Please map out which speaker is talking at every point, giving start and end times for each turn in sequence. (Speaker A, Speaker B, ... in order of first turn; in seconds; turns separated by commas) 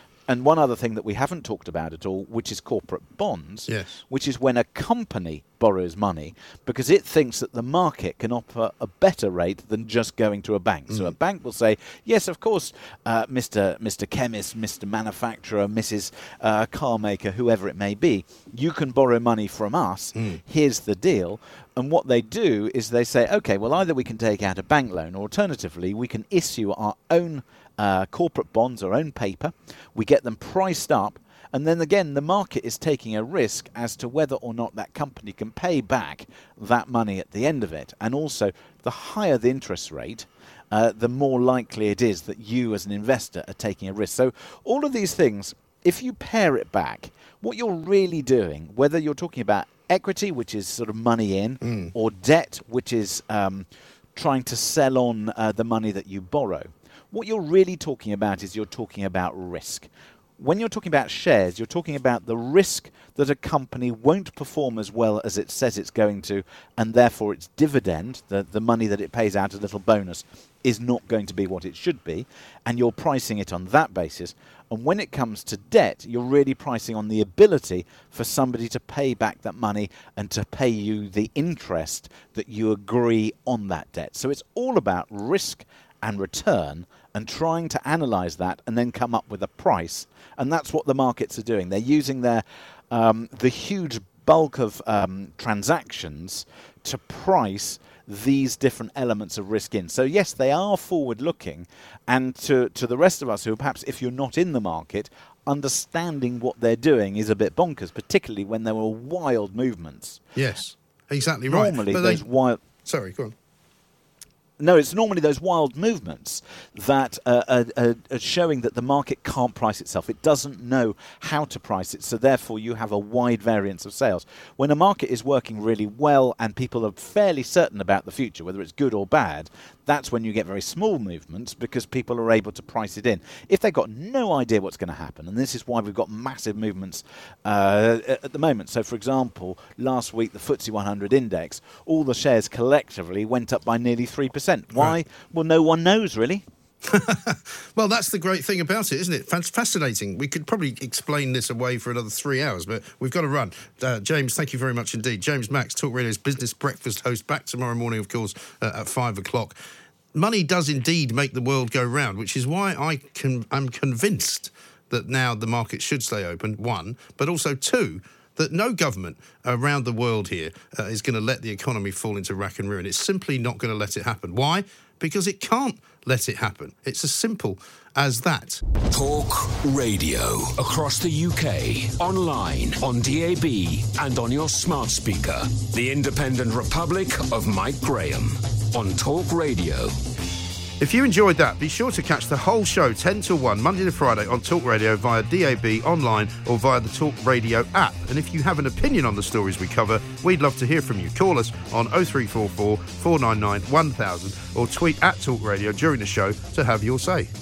Speaker A: 0.3-110.3, Speaker B: 3.7-4.0, Speaker B: 51.6-51.9, Speaker B: 110.4-112.2, Speaker A: 111.5-112.6, Speaker B: 112.8-113.3, Speaker A: 114.6-146.4, Speaker B: 146.9-159.6, Speaker B: 160.2-178.6, Speaker C: 178.9-190.0, Speaker B: 190.8-207.3